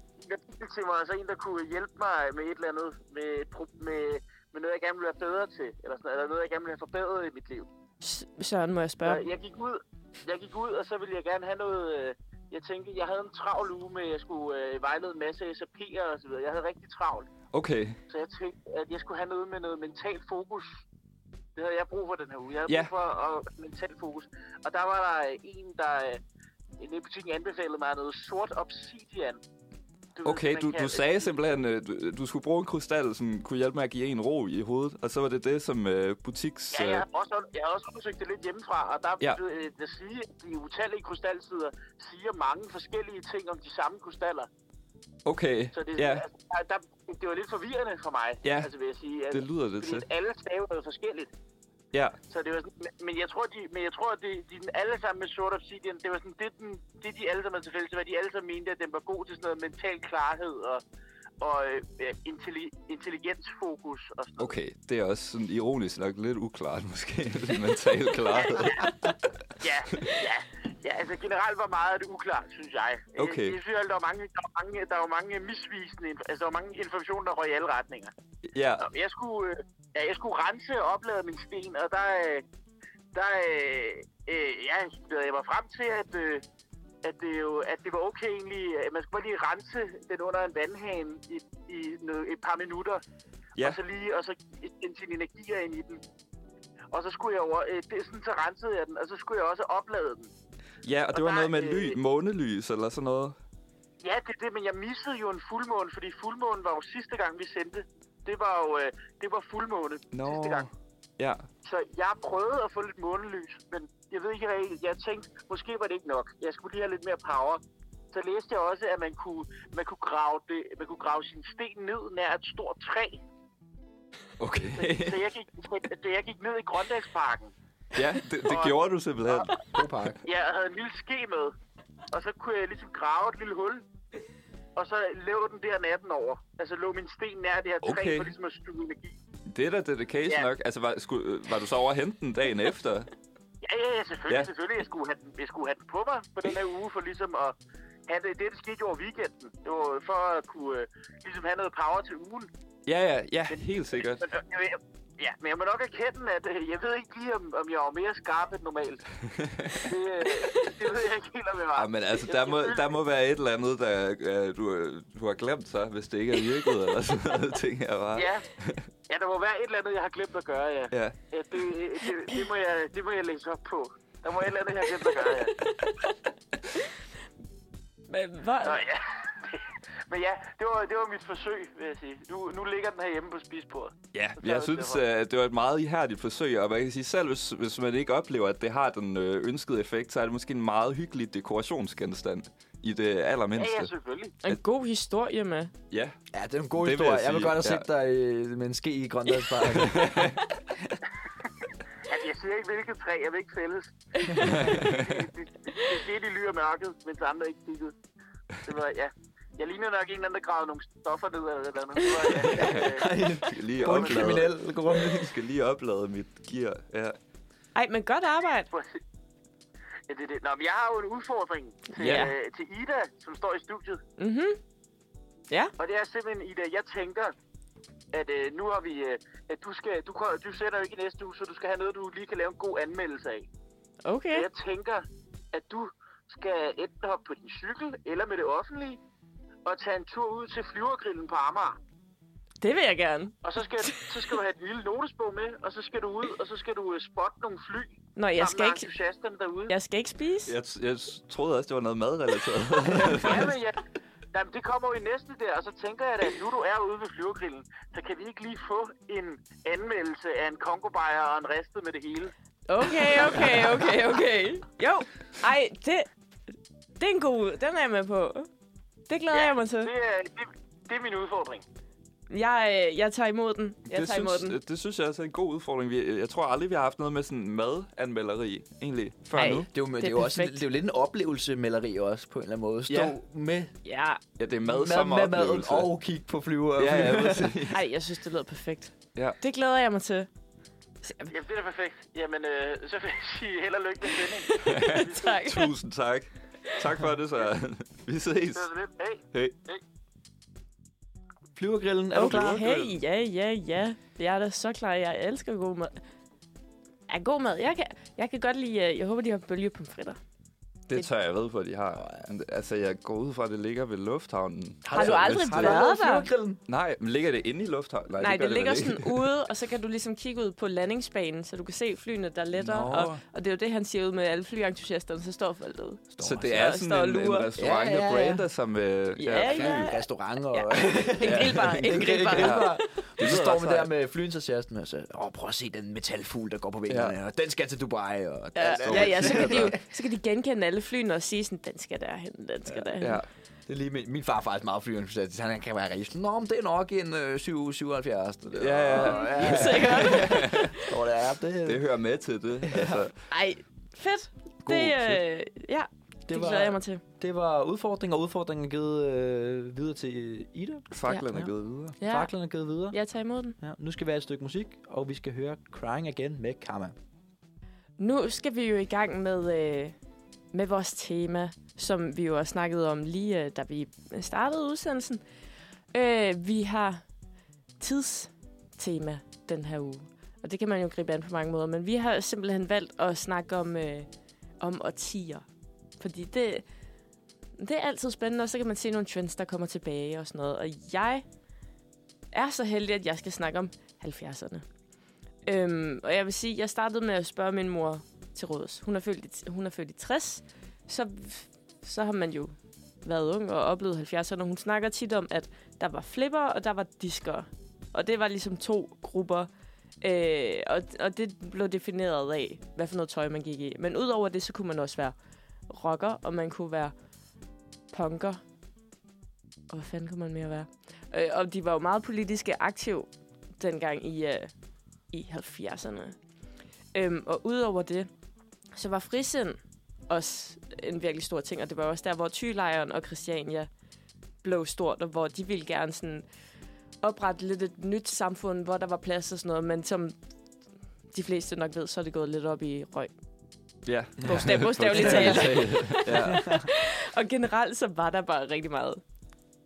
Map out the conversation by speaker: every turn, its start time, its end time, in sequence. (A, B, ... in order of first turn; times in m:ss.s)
0:00.2-0:07.7 A
0:08.0-0:09.2 B
0:09.0-0:17.3 A
0:17.5-0:18.0 C
0:18.1-0:20.8 A
0:21.5-0:26.2 A
0:26.8-0:29.4 A
0:30.2-0:31.3 A
0:30.2-0:37.0 C
0:36.7-0:44.5 A
0:45.2-0:46.2 C
0:45.7-0:51.3 A
0:48.4-0:48.7 C
0:49.3-0:50.0 C
0:52.3-1:00.8 A
1:01.4-1:04.5 A
1:04.4-1:09.1 C
1:08.3-1:08.9 A
1:09.6-1:18.1 A
1:13.2-1:13.6 C
1:18.5-1:18.9 C
1:18.8-1:22.4 A
1:23.1-1:26.4 A
1:27.0-1:33.0 A
1:33.6-1:36.0 A
1:36.9-1:40.3 A
1:40.8-1:43.4 C
1:41.1-1:42.0 A
1:44.0-1:50.6 A
1:50.1-1:51.4 C
1:51.6-1:57.6 A
1:58.1-2:03.2 A
2:04.4-2:05.2 C
2:04.7-2:07.5 A
2:07.9-2:09.6 C
2:08.4-2:09.5 A
2:09.6-2:10.2 D
2:10.2-2:11.5 A
2:12.1-2:13.8 A
2:14.8-2:19.2 A
2:17.8-2:18.3 C
2:19.4-2:23.1 C
2:23.6-2:27.6 A
2:28.1-2:32.5 A
2:32.8-2:34.3 C
2:34.1-2:42.9 A
2:39.4-2:39.8 C
2:41.7-2:48.8 C
2:48.1-2:48.4 A
2:49.1-2:55.6 A
2:50.9-2:51.2 C
2:55.5-2:56.1 B
2:58.1-2:58.8 B
2:58.6-3:05.0 A
3:04.1-3:13.9 C
3:13.6-3:14.3 A
3:14.4-3:15.7 B
3:15.9-3:16.2 C
3:16.3-3:20.3 D
3:16.8-3:17.8 C
3:19.6-3:20.4 C
3:22.0-3:27.9 A
3:24.2-3:24.7 B
3:24.4-3:25.1 C
3:28.6-3:33.1 A
3:32.5-3:37.2 C
3:32.5-3:35.4 D
3:33.8-3:34.3 A
3:37.7-3:38.7 B
3:38.7-3:39.0 A
3:40.1-3:44.0 A
3:42.0-3:42.3 B
3:42.0-3:42.3 C
3:44.2-3:44.6 B
3:45.8-3:47.3 A
3:48.1-3:53.5 A
3:54.0-3:54.5 B
3:54.3-3:59.0 A
3:59.6-4:01.8 A
4:02.6-4:04.3 B
4:03.4-4:09.7 A
4:08.2-4:08.9 B
4:09.7-4:10.5 B
4:10.5-4:13.5 C
4:13.0-4:13.8 A
4:14.3-4:22.3 A
4:22.7-4:26.1 B
4:27.0-4:28.5 B
4:29.1-4:29.9 B
4:29.3-4:31.6 A
4:32.3-4:34.6 B
4:33.9-4:39.7 C
4:39.3-4:40.6 B
4:39.7-4:43.7 D
4:42.9-4:43.1 C
4:43.8-4:44.2 B
4:44.4-4:45.9 C
4:44.6-4:47.6 D
4:46.8-4:47.8 C
4:47.7-4:50.3 B
4:51.0-4:51.3 B
4:51.3-4:55.1 A
4:54.4-4:55.7 B
4:54.6-4:58.7 C
4:58.5-4:59.8 A
5:01.5-5:02.6 D
5:02.1-5:06.0 B
5:02.2-5:02.9 C
5:07.1-5:10.2 B
5:10.9-5:15.8 C
5:12.0-5:12.3 D
5:14.8-5:16.6 D
5:14.9-5:16.3 B
5:16.7-5:19.3 C
5:18.2-5:27.5 B
5:22.6-5:23.2 C
5:22.7-5:23.2 D
5:26.1-5:26.7 D
5:26.2-5:29.9 C
5:27.6-5:28.4 D
5:29.2-5:32.8 B
5:29.4-5:39.8 D
5:31.2-5:33.9 C
5:36.9-5:37.1 C
5:38.5-5:43.2 B
5:38.8-5:39.8 C
5:43.0-5:43.2 C
5:43.7-5:51.9 D
5:48.5-5:50.6 C
5:48.9-5:50.9 B
5:51.6-5:53.2 C
5:52.6-5:53.1 D
5:53.3-5:57.0 B
5:54.6-5:55.2 D
5:56.3-6:00.9 D
6:00.9-6:02.0 C
6:01.0-6:02.3 B
6:02.0-6:03.0 D
6:02.9-6:03.6 B
6:03.6-6:06.9 D
6:08.0-6:10.0 B
6:10.5-6:15.2 B
6:15.9-6:17.0 B
6:17.8-6:24.1 B
6:24.6-6:25.4 B
6:26.0-6:26.6 B
6:27.6-6:31.2 B
6:32.3-6:34.6 B
6:35.4-6:49.5 B
6:50.0-6:55.2 B
6:55.7-6:56.9 B
6:57.9-6:58.4 B
6:59.7-7:04.5 B
7:05.1-7:06.2 B
7:06.9-7:08.1 B
7:08.7-7:13.7 B
7:14.4-7:16.2 B
7:17.0-7:20.2 B
7:21.1-7:23.1 B
7:23.8-7:26.6 C
7:24.2-7:26.6 D
7:24.2-7:29.0 B